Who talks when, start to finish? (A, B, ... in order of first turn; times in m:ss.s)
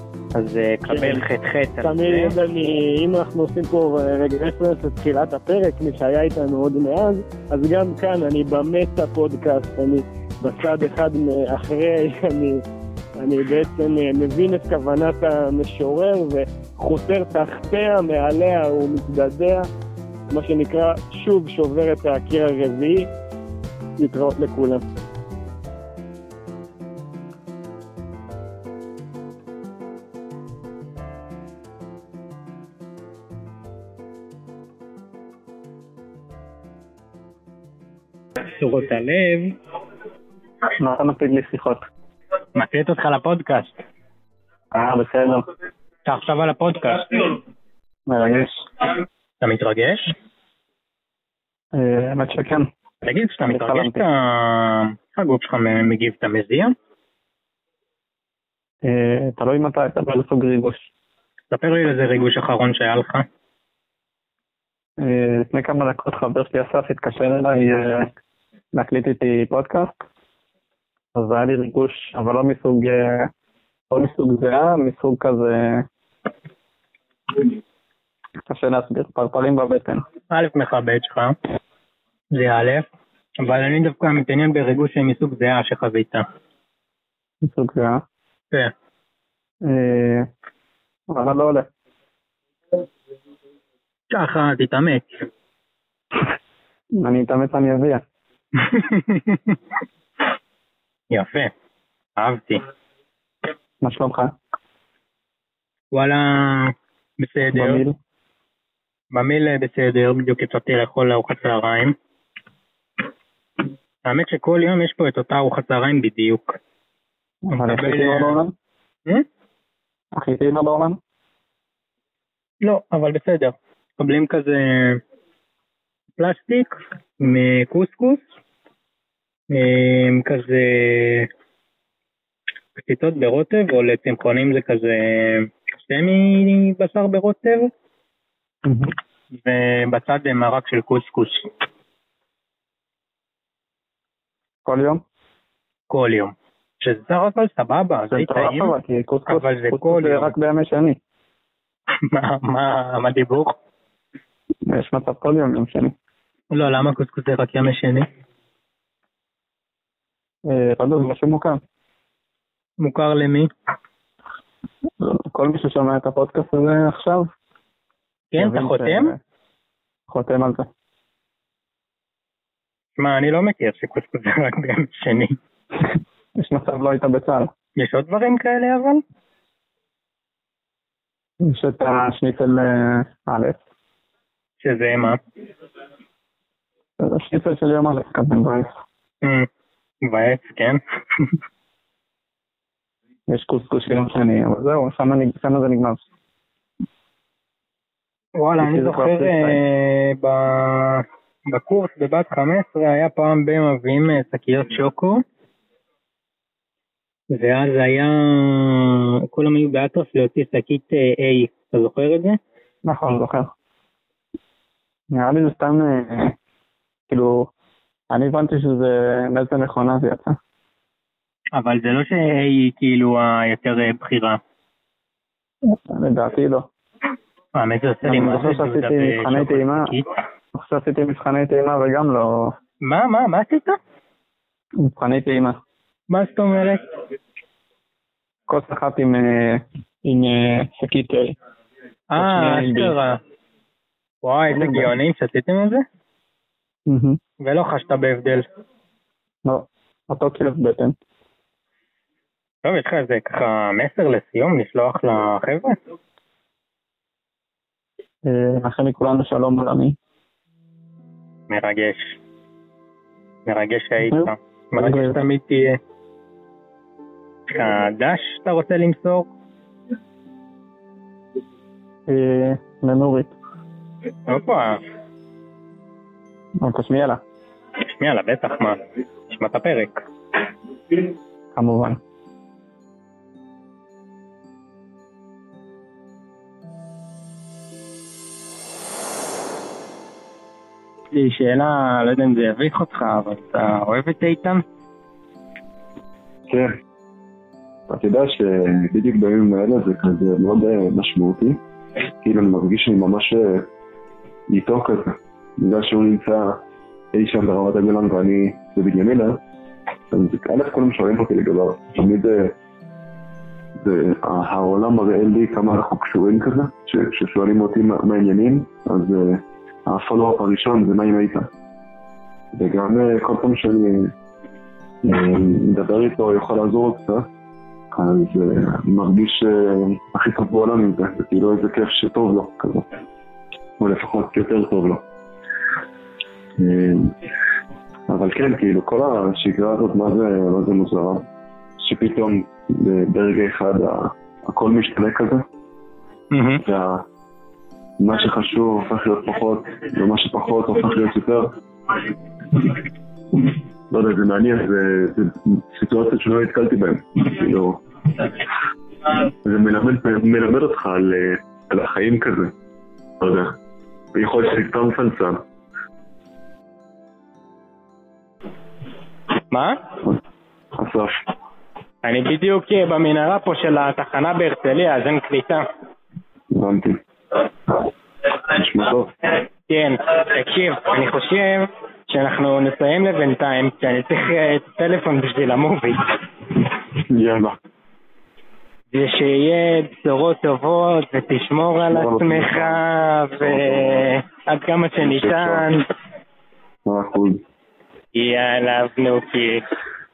0:00.4-0:02.3 A
0:00.9-0:01.2 B
0:01.8-0:12.6 B
0:13.2-0:19.7 B
0:20.3-0:23.1 B
0:24.0-0:24.8 B
0:38.4-0:39.6 A
0:40.8-0:41.8 C
0:42.6-0:43.7 A
0:44.7-0:45.4 C
0:46.0-0:47.4 A
0:48.1-0:48.7 C
0:49.4-0:50.0 A
0:51.7-0:52.7 C
0:53.0-0:56.7 A
0:53.5-0:54.1 C
0:58.8-1:00.9 C
1:01.5-1:03.3 A
1:05.0-1:08.1 C
1:08.7-1:09.9 C
1:11.2-1:13.3 C
1:13.9-1:15.9 C
1:18.5-1:20.0 C
1:20.3-1:21.4 A
1:22.4-1:22.9 A
1:23.4-1:26.2 A
1:27.4-1:28.0 C
1:29.6-1:30.3 C
1:31.1-1:31.7 C
1:34.1-1:35.0 A
1:37.0-1:38.0 C
1:38.6-1:39.6 A
1:41.1-1:41.5 A
1:42.2-1:42.6 A
1:43.8-1:44.3 C
1:45.9-1:47.8 A
1:47.5-1:48.0 C
1:49.1-1:52.0 A
1:54.1-1:56.6 A
1:57.5-1:58.5 C
1:57.6-1:58.4 A
2:00.2-2:01.0 C
2:02.6-2:05.0 A
2:06.2-2:08.2 A
2:09.5-2:11.3 A
2:12.8-2:17.7 A
2:18.6-2:18.9 C
2:19.4-2:21.5 A
2:24.6-2:25.0 C
2:25.9-2:28.8 A
2:28.1-2:31.0 C
2:29.3-2:30.3 A
2:32.1-2:33.6 A
2:34.7-2:35.9 C
2:36.5-2:38.1 A
2:40.5-2:41.6 C
2:42.8-2:43.5 A
2:45.0-2:47.3 C
2:48.3-2:49.1 A
2:48.4-2:49.2 C
2:50.1-2:50.7 C
2:53.0-2:55.4 A
2:56.4-2:57.5 C
2:57.8-2:59.0 A
3:01.4-3:03.6 C
3:04.6-3:05.2 A
3:07.0-3:08.7 C
3:09.2-3:09.5 A
3:10.1-3:11.3 A
3:13.3-3:16.0 C
3:18.4-3:25.2 A
3:18.6-3:19.6 C
3:27.3-3:32.4 A
3:32.8-3:33.5 C
3:35.1-3:36.4 C
3:37.1-3:37.5 C
3:38.1-3:40.4 C
3:41.6-3:44.4 A
3:45.7-3:46.7 C
3:47.6-3:50.1 A
3:48.0-3:49.9 C
3:50.5-3:52.5 C
3:52.8-3:53.8 A
3:54.8-3:55.6 C
3:56.1-3:56.8 A
3:58.5-4:01.4 C
4:02.1-4:03.2 A
4:02.2-4:03.0 C
4:04.2-4:05.8 A
4:04.5-4:04.9 C
4:06.9-4:07.2 C
4:07.4-4:08.4 A
4:09.4-4:11.0 C
4:12.6-4:15.8 A
4:18.2-4:20.0 C
4:21.5-4:22.2 A
4:23.5-4:25.8 A
4:24.1-4:25.2 C
4:27.5-4:29.3 A
4:32.1-4:33.3 C
4:34.3-4:34.8 A
4:36.6-4:37.2 C
4:37.9-4:40.0 A
4:41.6-4:42.0 C
4:51.1-4:54.6 A
4:57.9-5:01.6 D
5:02.2-5:03.7 D
5:04.5-5:06.6 D
5:07.1-5:09.4 D
5:10.1-5:12.5 D
5:13.8-5:21.5 D
5:22.6-5:24.1 D
5:25.0-5:27.3 D
5:27.9-5:32.9 D
5:33.8-5:35.0 D
5:36.6-5:37.1 D
5:38.1-5:41.3 D
5:41.8-5:45.4 D
5:46.3-5:46.6 A
5:46.6-5:47.0 D
5:48.0-5:51.5 D
5:53.9-5:58.4 D
5:59.1-6:02.5 D
6:03.2-6:03.6 D
6:04.1-6:05.4 D
6:09.5-6:09.8 A
6:10.8-6:11.2 D
6:12.0-6:15.7 A
6:16.5-6:17.0 D
6:18.5-6:19.1 D
6:19.7-6:26.0 A
6:27.0-6:27.6 D
6:28.9-6:35.8 A
6:31.9-6:32.8 D
6:33.4-6:34.2 D
6:35.0-6:35.7 D
6:36.9-6:37.4 D
6:38.2-6:39.6 A